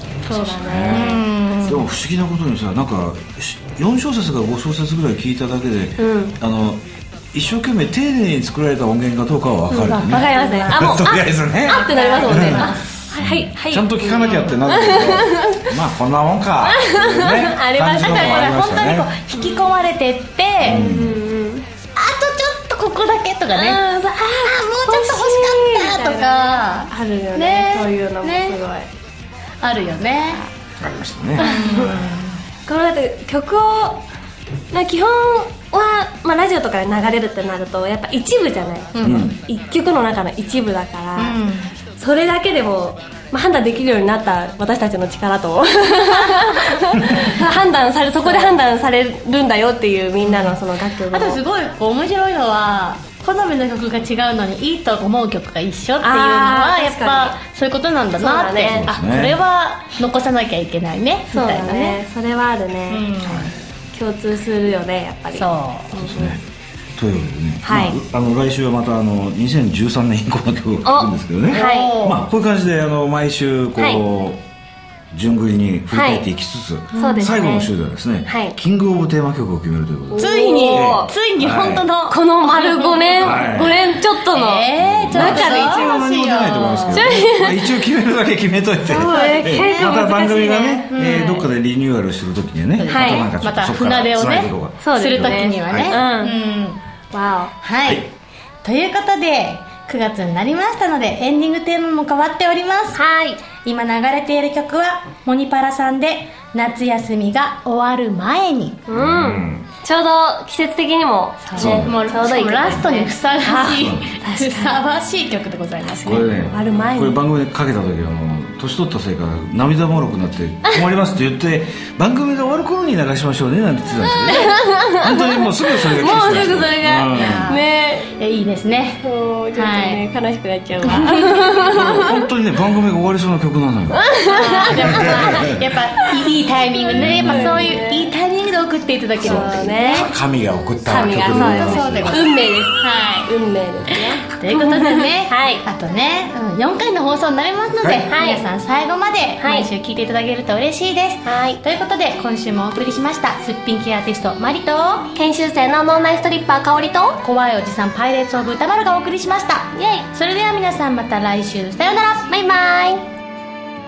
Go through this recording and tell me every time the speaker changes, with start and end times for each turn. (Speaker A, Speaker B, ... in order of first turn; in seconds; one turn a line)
Speaker A: 0.2-1.3
Speaker B: 0.3-19.1
Speaker C: 0.9-1.9
Speaker A: 6.0-6.3
Speaker A: 9.7-15.7
Speaker C: 9.8-11.0
Speaker C: 11.7-12.9
Speaker A: 16.7-18.6
Speaker C: 17.9-20.9
Speaker A: 19.3-19.6
Speaker B: 20.6-21.2
Speaker A: 20.6-21.6
Speaker C: 22.0-23.8
Speaker A: 23.5-28.9
Speaker C: 24.4-28.6
Speaker C: 29.6-30.4
Speaker B: 30.8-31.8
Speaker A: 31.4-32.0
Speaker C: 31.4-32.4
Speaker A: 32.6-34.0
Speaker A: 34.7-41.4
Speaker C: 39.0-39.3
Speaker B: 39.0-39.4
Speaker C: 41.2-41.7
Speaker A: 42.0-51.4
Speaker C: 46.2-47.4
Speaker C: 48.2-48.6
Speaker C: 50.2-50.6
Speaker C: 51.1-62.0
Speaker A: 56.0-57.4
Speaker A: 58.2-58.9
Speaker B: 58.8-59.4
Speaker A: 61.3-63.1
Speaker C: 62.9-63.5
Speaker B: 63.2-63.5
Speaker A: 63.9-66.3
Speaker C: 65.3-66.0
Speaker B: 65.9-66.4
Speaker B: 67.0-74.4
Speaker A: 67.6-68.0
Speaker A: 70.8-72.0
Speaker C: 71.5-72.2
Speaker A: 73.8-74.0
Speaker B: 75.1-81.9
Speaker A: 75.9-76.2
Speaker C: 76.9-77.3
Speaker A: 77.0-77.7
Speaker A: 78.3-78.6
Speaker A: 80.1-81.1
Speaker C: 80.2-87.1
Speaker A: 82.1-86.0
Speaker B: 83.2-84.0
Speaker B: 84.8-96.0
Speaker A: 86.9-87.7
Speaker A: 88.9-90.4
Speaker C: 89.1-91.5
Speaker C: 92.8-96.8
Speaker A: 92.9-93.3
Speaker A: 94.8-96.4
Speaker A: 97.1-97.5
Speaker C: 97.6-98.1
Speaker C: 98.6-108.8
Speaker A: 103.0-103.4
Speaker A: 108.9-114.8
Speaker B: 108.9-109.7
Speaker C: 111.5-116.5
Speaker B: 111.5-112.1
Speaker B: 113.7-114.1
Speaker B: 116.0-127.5
Speaker A: 116.5-117.2
Speaker A: 124.1-128.1
Speaker C: 126.1-129.0
Speaker A: 129.0-132.2
Speaker C: 129.5-130.0
Speaker C: 130.9-131.7
Speaker B: 131.6-135.6
Speaker A: 134.0-135.6
Speaker C: 134.3-140.1
Speaker A: 136.2-138.1
Speaker B: 136.9-137.7
Speaker A: 139.2-140.1
Speaker B: 139.2-142.3
Speaker A: 140.8-145.6
Speaker C: 141.1-143.3
Speaker C: 144.3-155.1
Speaker A: 148.1-148.4
Speaker A: 149.4-149.7
Speaker A: 151.2-151.6
Speaker A: 155.2-157.2
Speaker C: 157.2-162.3
Speaker A: 159.8-160.1
Speaker A: 162.3-163.1